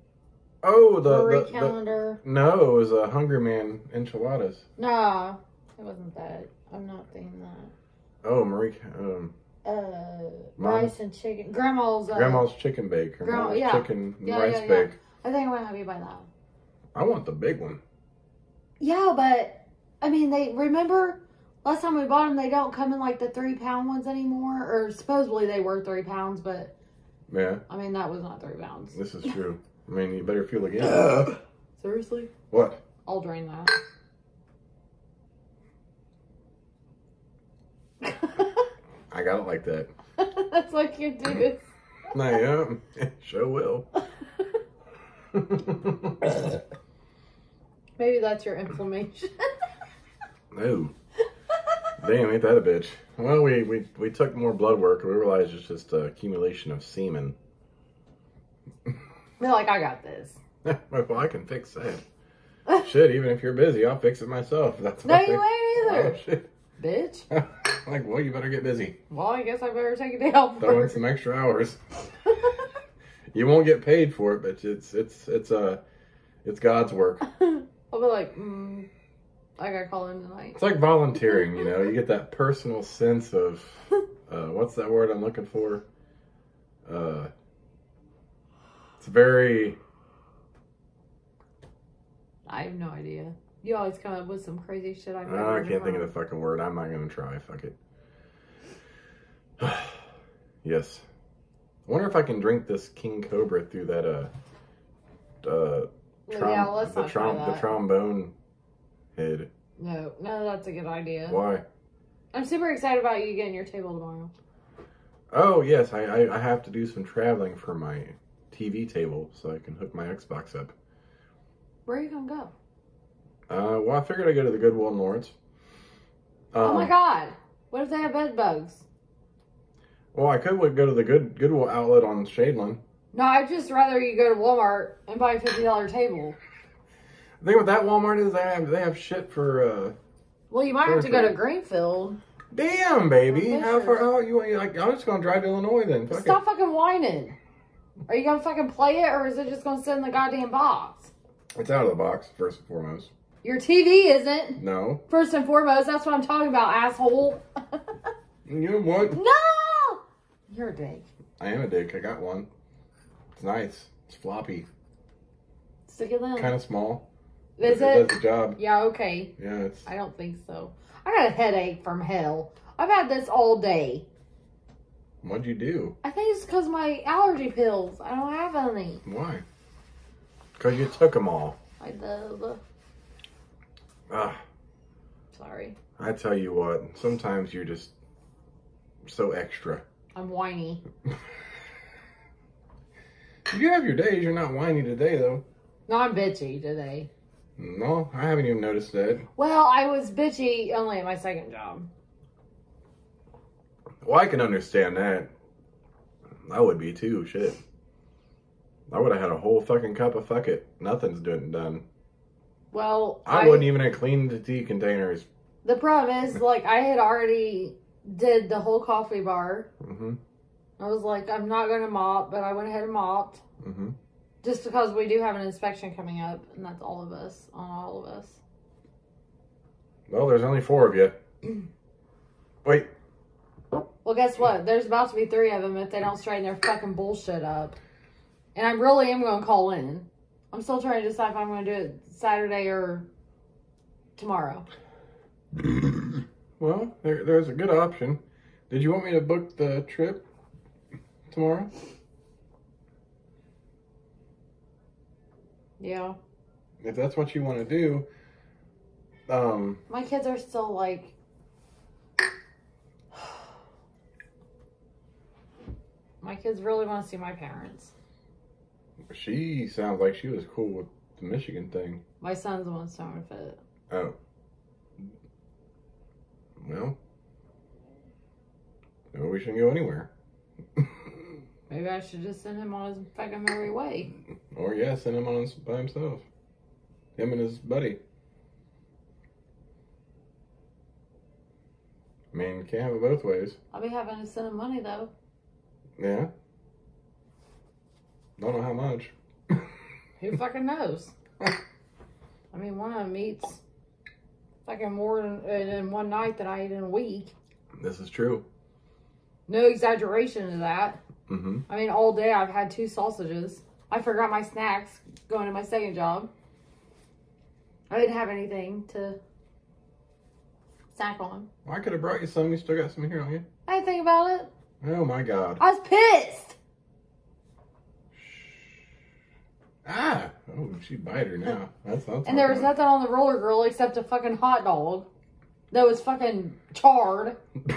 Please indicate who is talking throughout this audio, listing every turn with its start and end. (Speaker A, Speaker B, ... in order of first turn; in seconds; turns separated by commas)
Speaker A: 0.6-4.7, Speaker B: 1.0-2.2, Speaker B: 4.8-7.7, Speaker A: 8.2-9.3, Speaker B: 9.6-12.5, Speaker A: 10.6-10.9, Speaker A: 12.1-15.0, Speaker B: 13.2-16.3, Speaker A: 16.9-17.8, Speaker B: 18.8-26.7, Speaker A: 27.3-27.6, Speaker B: 27.7-29.0, Speaker A: 28.9-31.3, Speaker B: 31.8-32.3, Speaker A: 32.5-32.8, Speaker B: 33.1-33.7, Speaker B: 38.0-38.7, Speaker A: 39.1-39.9, Speaker B: 40.2-41.7, Speaker A: 42.1-43.9, Speaker B: 44.0-44.6, Speaker A: 45.3-46.3, Speaker B: 48.0-49.5, Speaker A: 50.5-50.9, Speaker A: 52.0-57.4, Speaker B: 59.4-60.4, Speaker A: 60.6-62.0, Speaker A: 62.8-66.5, Speaker B: 65.0-66.2, Speaker B: 66.8-67.3, Speaker A: 67.3-69.0, Speaker B: 69.1-71.0, Speaker A: 70.6-72.0, Speaker B: 72.4-72.7, Speaker A: 73.3-75.8, Speaker A: 76.4-77.2, Speaker B: 77.2-78.9, Speaker B: 79.6-80.6, Speaker A: 80.5-85.8, Speaker A: 86.9-87.3, Speaker A: 89.0-89.8, Speaker B: 92.5-96.1, Speaker A: 95.3-97.8, Speaker A: 99.6-100.0, Speaker A: 100.6-101.0, Speaker A: 101.9-104.3, Speaker A: 105.4-108.3, Speaker B: 106.3-107.7, Speaker A: 109.2-109.5, Speaker B: 109.8-111.4, Speaker A: 111.3-111.7, Speaker B: 112.3-114.3, Speaker A: 115.3-120.7, Speaker B: 121.9-122.5, Speaker A: 123.5-125.3, Speaker A: 126.5-126.9, Speaker B: 126.6-128.8, Speaker A: 130.1-132.8, Speaker B: 133.1-136.4, Speaker A: 137.4-140.0, Speaker B: 140.5-142.2, Speaker A: 140.9-141.4, Speaker A: 142.5-146.4, Speaker B: 143.3-144.0, Speaker B: 146.1-147.4, Speaker B: 148.1-151.1, Speaker A: 151.6-153.1, Speaker B: 153.4-158.1, Speaker A: 154.6-155.0, Speaker A: 158.5-159.2, Speaker B: 159.1-161.1, Speaker A: 161.4-162.5, Speaker A: 163.3-164.7, Speaker B: 165.9-166.6, Speaker A: 166.4-167.1, Speaker B: 167.6-169.3, Speaker A: 167.6-168.6, Speaker A: 169.4-169.9, Speaker B: 169.9-174.1, Speaker A: 175.2-176.0, Speaker B: 176.0-179.0, Speaker A: 179.0-179.4, Speaker A: 180.6-181.6, Speaker B: 181.8-182.6, Speaker A: 184.1-184.4, Speaker B: 185.3-185.8, Speaker A: 186.0-187.9, Speaker A: 189.1-189.8, Speaker B: 190.2-190.8, Speaker A: 193.5-195.4, Speaker B: 195.9-197.1, Speaker A: 197.6-199.3, Speaker B: 199.4-201.9, Speaker A: 204.0-205.3, Speaker A: 206.4-207.6, Speaker A: 208.9-211.8, Speaker B: 212.7-213.7, Speaker A: 213.2-215.3, Speaker B: 215.6-219.7, Speaker A: 219.8-220.2, Speaker B: 220.8-223.4, Speaker A: 223.6-224.0, Speaker B: 224.4-228.4, Speaker A: 230.1-231.2, Speaker A: 232.6-232.9, Speaker B: 234.0-237.8, Speaker B: 238.6-243.1, Speaker B: 244.2-244.7, Speaker A: 246.6-250.3, Speaker A: 251.3-251.7, Speaker B: 255.8-256.2, Speaker A: 256.8-258.1, Speaker A: 259.3-259.8, Speaker B: 259.9-261.1, Speaker B: 266.2-267.9, Speaker A: 269.1-272.0, Speaker B: 272.2-273.6, Speaker A: 273.9-274.1, Speaker A: 276.6-277.0, Speaker A: 279.1-280.1, Speaker B: 281.7-284.1, Speaker A: 284.5-286.2, Speaker A: 287.2-288.0, Speaker A: 292.3-293.6, Speaker B: 293.7-295.1, Speaker A: 296.0-296.3, Speaker A: 298.4-299.6, Speaker B: 300.2-301.1, Speaker B: 302.5-303.6, Speaker B: 304.6-307.3, Speaker A: 307.8-308.4, Speaker B: 309.5-311.0, Speaker A: 311.3-311.6, Speaker B: 311.7-316.3, Speaker B: 317.9-319.2, Speaker B: 320.9-321.5, Speaker A: 321.6-323.4, Speaker B: 323.7-324.5, Speaker A: 324.8-325.6, Speaker B: 325.6-326.6, Speaker A: 328.2-328.5, Speaker A: 329.9-332.7, Speaker B: 332.2-335.1, Speaker B: 335.7-337.4